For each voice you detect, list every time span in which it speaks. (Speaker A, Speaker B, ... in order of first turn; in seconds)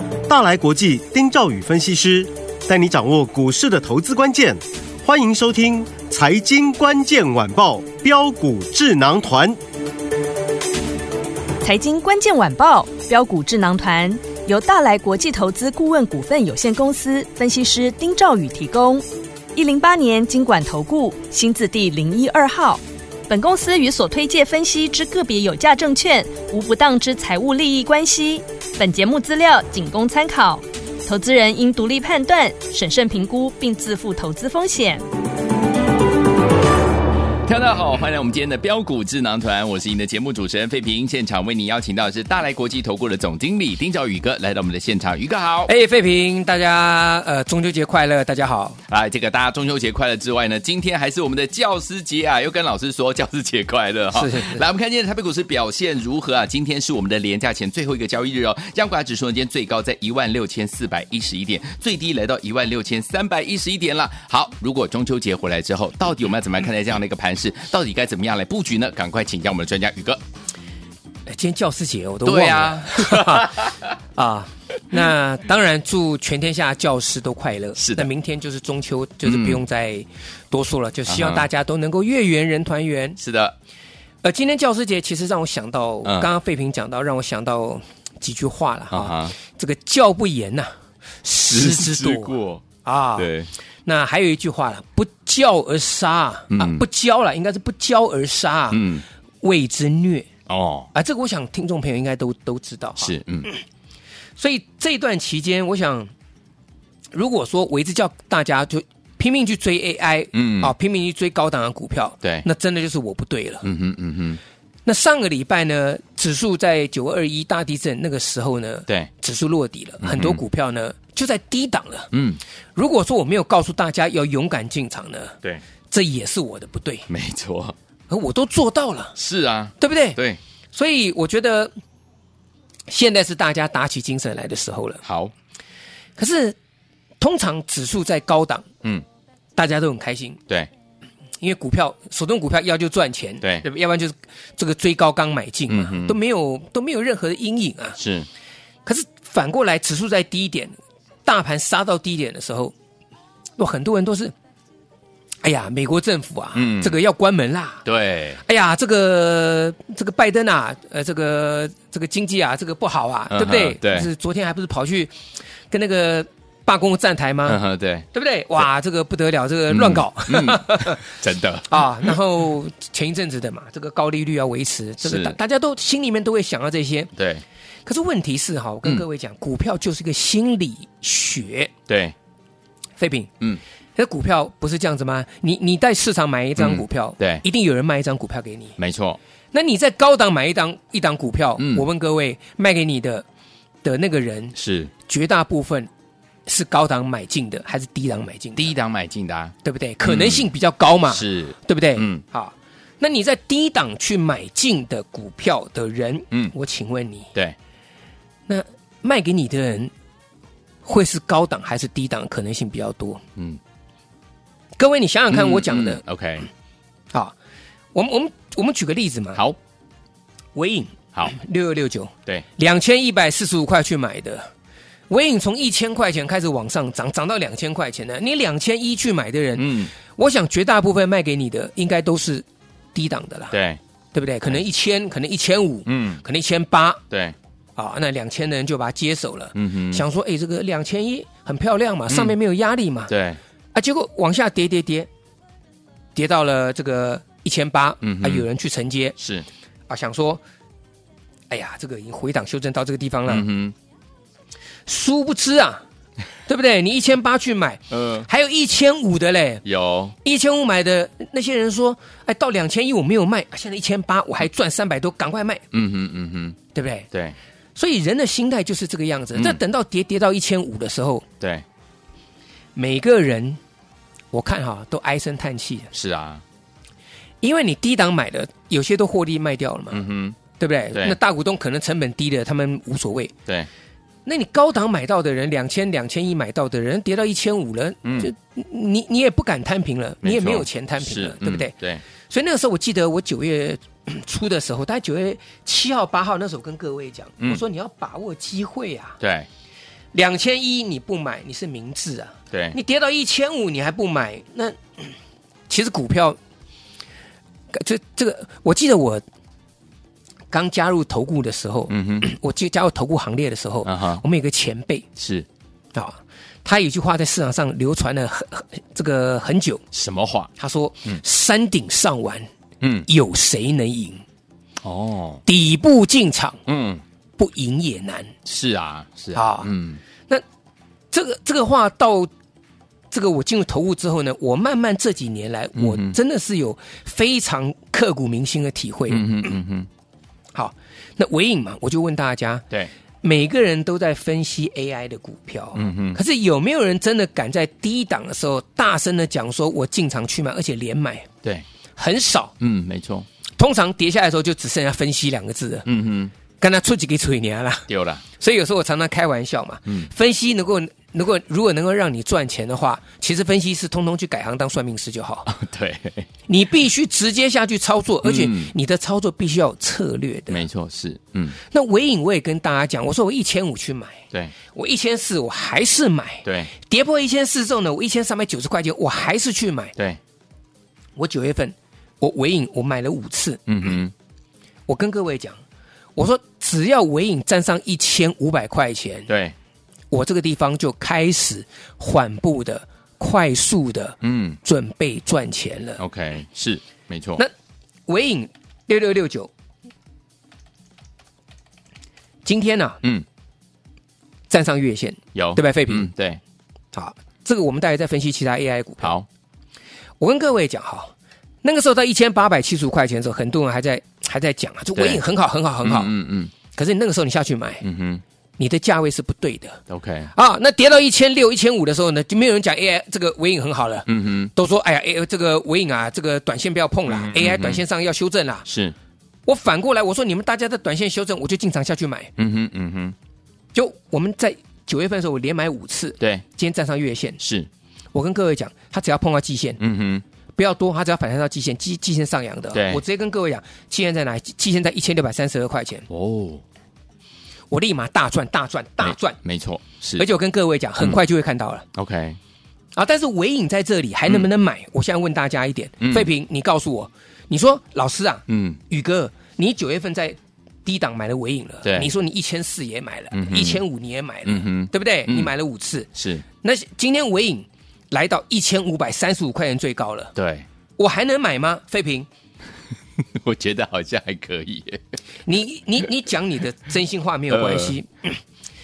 Speaker A: 0.3-9.6
Speaker B: 11.6-35.0
Speaker C: 37.5-45.7, 48.9-70.2, 72.2-73.8, 77.8-78.1, 79.2-79.6, 81.1-81.5, 83.2-83.5, 86.0-86.3, 88.9-89.3, 91.5-92.6, 93.2-93.5, 96.5-96.8, 98.7-99.0, 100.5-100.9, 103.0-103.5, 110.3-110.7, 113.6-114.4, 120.0-120.4, 122.1-122.4, 127.1-127.8, 129.2-130.4, 135.0-135.3, 145.7-146.2, 148.0-148.3, 156.5-156.9, 157.8-158.4, 163.3-164.1, 167.4-168.1, 169.7-172.1, 175.0-175.3, 177.2-177.4, 181.9-182.1, 186.6-187.4, 188.8-189.2, 191.6-191.8, 194.5-194.9, 198.6-200.4, 201.1-202.2, 215.3-216.5, 229.6-229.9, 233.5-233.8, 235.8-236.2, 237.1-237.3, 239.5-240.0, 242.1-242.3, 243.1-243.4, 248.0-248.4, 249.2-249.4, 253.3-253.7, 257.9-258.3, 259.6-260.1, 265.7-266.6, 275.9-276.4, 279.9-280.4, 288.0-288.3, 290.2-292.0, 299.2-299.5, 311.9-312.3, 313.8-314.2, 315.2-315.4, 319.9-320.5, 322.8-323.1, 324.8-325.4, 326.7-327.0, 328.4-330.0, 335.8-336.2, 339.1-339.9, 345.8-346.2, 352.6-353.3, 355.9-356.3, 357.9-358.2, 365.5-366.3, 368.2-368.7, 370.5-371.6, 376.4-376.7, 383.7-384.1, 389.3-389.5, 394.2-394.6, 396.0-397.4, 405.3-406.4, 409.0-409.2, 414.9-415.2, 415.8-416.5, 417.8-418.2, 419.9-420.3, 424.1-424.5, 427.1-427.8, 428.7-428.9, 432.4-433.1, 437.4-437.7, 439.8-440.2, 442.7-443.0, 446.1-446.6, 449.0-450.2, 451.9-452.4, 456.0-456.3, 458.5-458.8, 461.8-462.1, 463.3-463.8, 464.4-465.5, 466.1-466.4, 470.4-470.6, 473.3-475.0, 477.5-477.9
Speaker D: 45.7-48.8, 54.1-54.6, 71.3-83.2, 84.2-90.7, 91.2-93.3, 93.8-98.8, 99.4-100.3, 100.9-103.6, 104.4-106.1, 107.1-113.7, 114.8-122.1, 122.7-125.4, 125.9-127.1, 128.1-129.2, 129.8-130.2, 130.7-131.7, 132.9-135.0, 136.2-136.6, 137.2-138.7, 139.6-140.4, 141.4-148.0, 148.8-152.7, 153.6-154.3, 155.4-157.8, 158.4-165.1, 165.7-167.6, 168.1-171.0, 171.7-177.1, 177.8-181.7, 183.0-183.3, 183.9-188.8, 189.5-193.2, 193.8-194.5, 195.1-195.9, 196.5-198.7, 199.6-207.3, 208.5-209.9, 210.8-213.2, 214.8-216.0, 217.9-219.4, 220.5-224.5, 225.1-233.6, 234.1-237.0, 237.8-243.1, 243.7-245.1, 246.1-249.2, 249.9-250.4, 251.5-253.5, 254.8-255.8, 256.5-259.6, 260.2-265.6, 266.7-267.1, 267.8-271.2, 272.8-273.6, 274.3-275.9, 277.4-280.0, 280.6-283.3, 284.2-291.7, 292.3-299.2, 300.1-305.1, 305.7-306.4, 307.7-309.2, 310.5-315.1, 315.9-319.8, 320.6-322.5, 323.1-324.2, 325.4-326.6, 327.4-328.3, 329.3-329.7, 331.1-332.3, 333.1-339.5, 340.5-342.6, 343.2-351.3, 351.9-352.5, 353.6-355.9, 356.6-365.5, 366.5-370.6, 371.6-379.9, 381.1-384.0, 384.9-385.6, 386.1-389.3, 390.1-396.0, 398.1-399.5, 402.4-403.0, 404.5-406.1, 406.9-409.1, 410.2-411.1, 411.6-417.8, 418.6-419.8, 420.3-428.7, 429.4-432.3, 433.7-437.4, 438.1-439.8, 440.6-446.1, 447.7-449.4, 450.2-451.8, 452.9-466.1, 466.6-470.3, 471.0-472.3, 475.4-478.4